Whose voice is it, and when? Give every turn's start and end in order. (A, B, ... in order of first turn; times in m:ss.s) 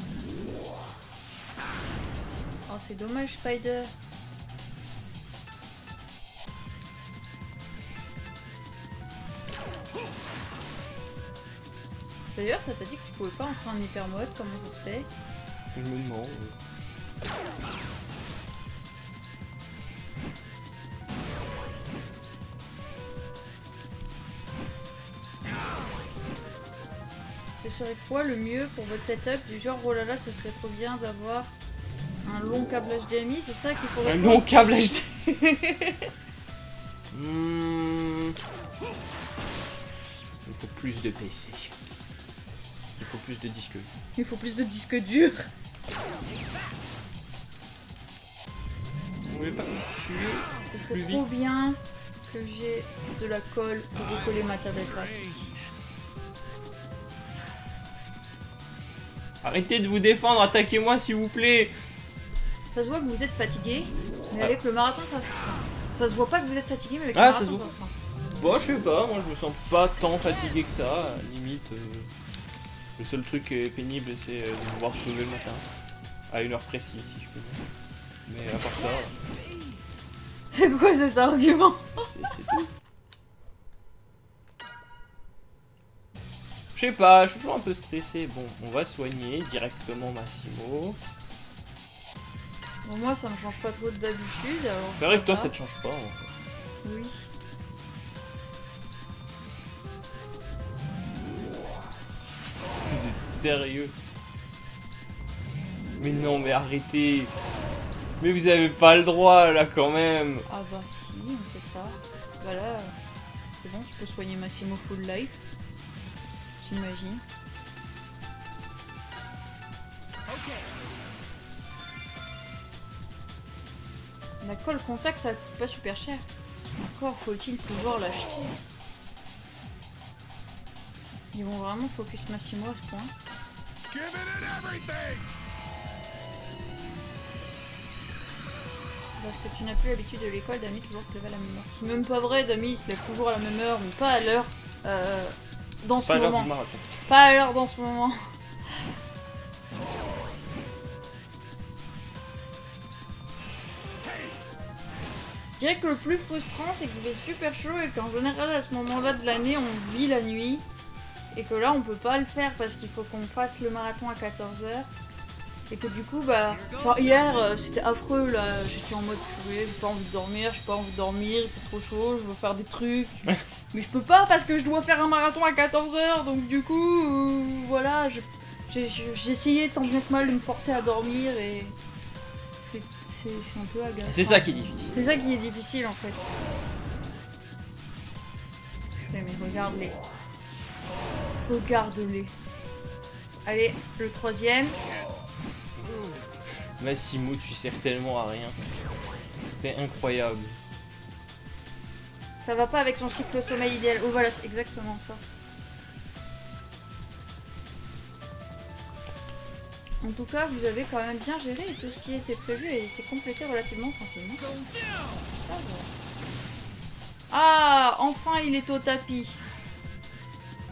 0:02.7-0:03.9 A
0:12.4-0:15.1 A
0:15.7-0:16.6 B
0:27.6-0:31.5 A
0:32.2-0:34.5 A
0:34.0-0:35.2 B
0:35.3-0:36.0 A
0:37.1-0:38.4 B
0:40.4-0:41.8 B
0:43.0-0:43.9 B
0:44.2-0:45.5 A
0:49.3-0:51.2 B
0:50.7-0:55.5 A
0:54.0-0:55.6 C
0:59.4-1:01.7 B
1:02.7-1:07.9 A
1:07.1-1:07.7 B
1:08.4-1:12.1 B
1:13.0-1:15.7 B
1:16.3-1:17.6 B
1:18.3-1:19.2 B
1:18.8-1:19.8 C
1:20.5-1:22.6 A
1:22.0-1:22.7 B
1:26.8-1:31.0 B
1:32.8-1:35.5 A
1:35.0-1:36.2 B
1:36.8-1:37.3 A
1:42.8-1:44.0 B
1:46.0-1:47.3 B
1:48.2-1:50.5 B
1:50.5-1:52.9 A
1:53.6-1:55.4 A
1:56.6-1:57.2 A
2:00.3-2:01.0 C
2:04.4-2:06.3 A
2:06.8-2:08.6 A
2:11.3-2:13.1 A
2:13.9-2:15.3 C
2:19.2-2:26.5 A
2:26.0-2:26.9 B
2:27.1-2:28.2 A
2:35.6-2:40.6 A
2:41.3-2:44.9 A
2:45.7-3:01.8 A
2:46.5-2:47.6 C
3:02.6-3:06.3 A
3:04.1-3:04.9 B
3:09.0-3:10.0 A
3:11.5-3:12.3 A
3:13.5-3:14.8 A
3:15.8-3:16.0 B
3:16.8-3:18.7 B
3:19.5-3:20.6 B
3:22.4-3:25.2 A
3:30.0-3:34.4 A
3:34.4-3:35.3 C
3:35.4-3:35.9 A
3:37.3-3:39.4 A